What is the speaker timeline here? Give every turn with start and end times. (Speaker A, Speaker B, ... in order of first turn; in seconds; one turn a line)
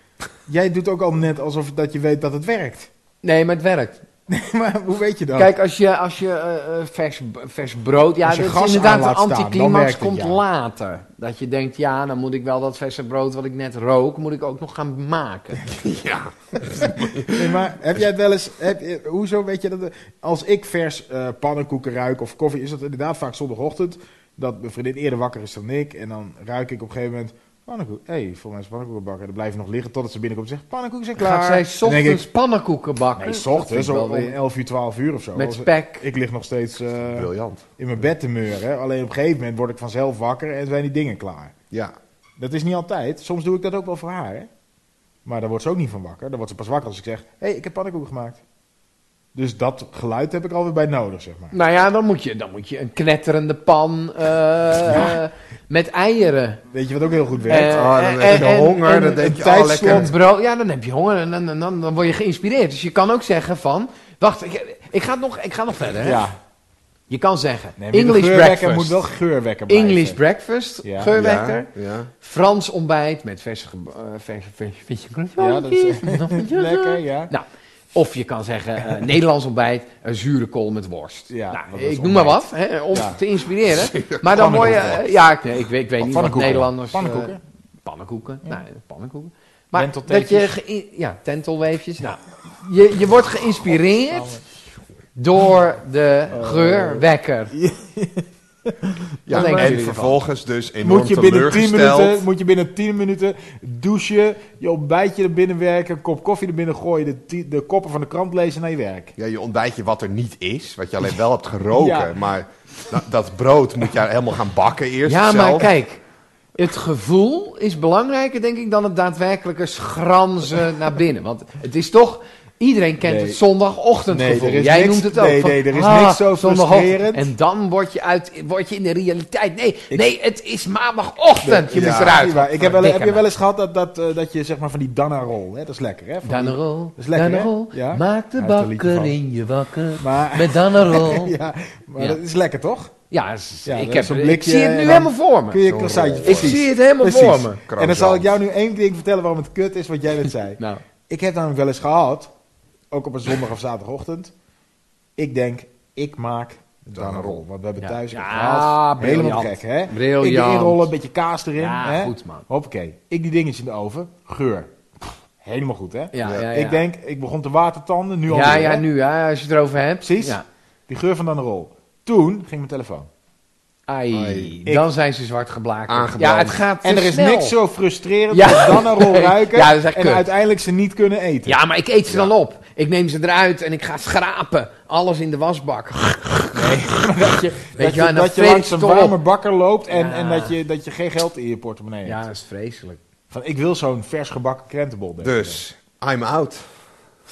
Speaker A: 0.5-2.9
Speaker B: 3.2-4.0
Speaker A: 4.3-5.5
Speaker B: 5.4-15.7
Speaker A: 8.3-10.4
Speaker C: 15.7-18.0
Speaker A: 16.8-32.2
Speaker B: 31.2-34.4
Speaker A: 33.2-41.5
Speaker B: 35.4-36.0
Speaker C: 37.1-37.6
Speaker A: 42.4-44.5
Speaker A: 45.2-48.4
Speaker A: 49.4-51.6
Speaker B: 51.5-56.6
Speaker A: 54.9-55.2
Speaker A: 56.7-60.1
Speaker B: 57.5-66.3
Speaker C: 57.6-60.1
Speaker A: 66.0-66.4
Speaker B: 67.1-69.0
Speaker A: 67.8-70.2
Speaker B: 69.7-94.3
Speaker A: 70.8-71.1
Speaker C: 71.1-72.1
Speaker A: 75.4-77.3
Speaker A: 81.3-83.2
Speaker C: 83.7-85.0
Speaker A: 84.2-85.0
Speaker A: 86.0-87.4
Speaker A: 89.7-90.5
Speaker A: 93.7-94.5
Speaker B: 95.2-97.5
Speaker A: 96.3-100.2
Speaker C: 99.3-102.3
Speaker B: 99.3-99.9
Speaker A: 100.8-109.1
Speaker C: 109.2-115.7
Speaker A: 111.7-112.1
Speaker B: 115.1-116.0
Speaker B: 116.6-133.2
Speaker A: 123.0-123.4
Speaker A: 124.1-127.3
Speaker A: 131.4-139.2
Speaker C: 131.7-132.2
Speaker B: 136.2-141.4
Speaker A: 140.0-142.9
Speaker B: 143.1-145.7
Speaker A: 143.7-152.3
Speaker C: 145.7-148.4
Speaker B: 146.2-147.6
Speaker B: 150.6-150.8
Speaker A: 152.9-154.3
Speaker A: 155.2-168.8
Speaker C: 156.9-157.4
Speaker B: 157.8-160.9
Speaker B: 161.6-162.4
Speaker B: 166.1-166.8
Speaker B: 168.3-170.4
Speaker A: 170.0-173.1
Speaker B: 173.9-177.6
Speaker C: 174.1-174.6
Speaker C: 175.9-176.6
Speaker A: 176.8-181.6
Speaker B: 178.3-180.3
Speaker B: 181.5-186.7
Speaker C: 182.1-182.3
Speaker A: 186.5-192.2
Speaker B: 187.8-189.2
Speaker B: 189.9-190.6
Speaker B: 192.1-193.0
Speaker A: 193.3-195.6
Speaker C: 195.2-196.7